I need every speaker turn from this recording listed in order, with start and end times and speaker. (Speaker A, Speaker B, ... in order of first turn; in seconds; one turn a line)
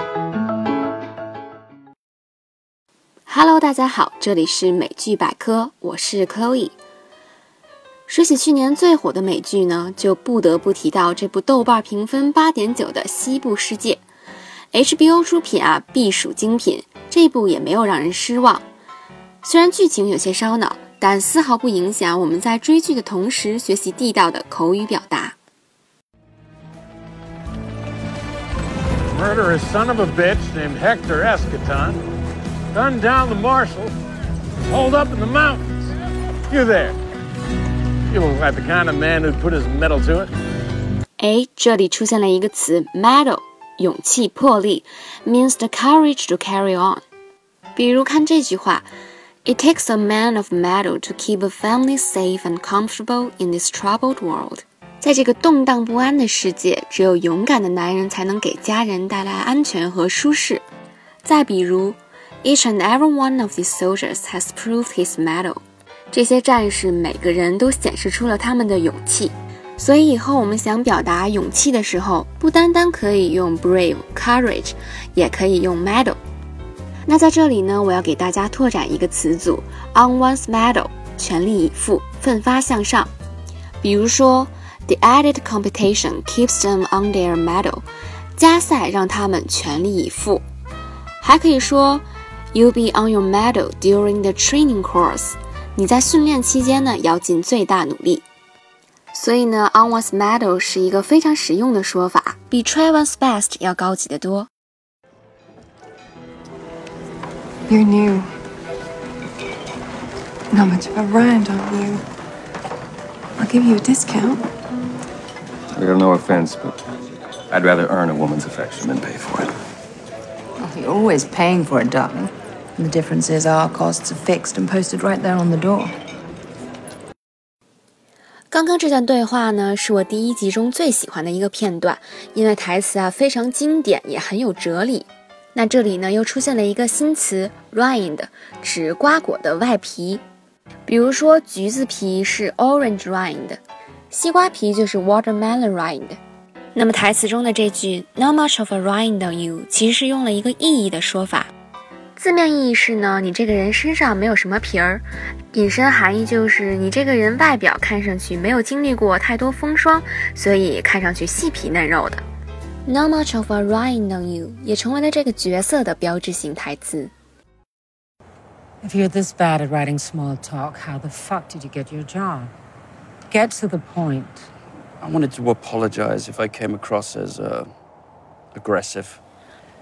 Speaker A: 3.3-6.8
Speaker A: 8.1-14.0
Speaker A: 14.7-18.6
Speaker A: 19.4-25.4
Speaker B: 29.1-32.0
Speaker B: 32.7-33.9
Speaker B: 34.7-35.9
Speaker B: 36.5-37.0
Speaker B: 38.1-40.3
Speaker A: 41.2-47.0
Speaker A: 47.8-48.9
Speaker A: 49.4-60.6
Speaker A: 61.2-76.2
Speaker A: 77.0-83.1
Speaker A: 83.8-90.4
Speaker A: 91.2-98.2
Speaker A: 99.1-104.5
Speaker C: 107.7-108.3
Speaker C: 110.5-112.0
Speaker C: 113.4-114.5
Speaker D: 115.7-116.8
Speaker D: 117.5-119.5
Speaker E: 120.6-126.0
Speaker A: 128.5-140.2
Speaker A: 140.9-143.6
Speaker A: 144.1-146.2
Speaker A: 146.7-151.5
Speaker A: 152.2-162.2
Speaker A: 162.8-167.1
Speaker F: 168.8-172.5
Speaker F: 173.3-174.4
Speaker G: 175.0-177.7
Speaker G: 178.5-179.2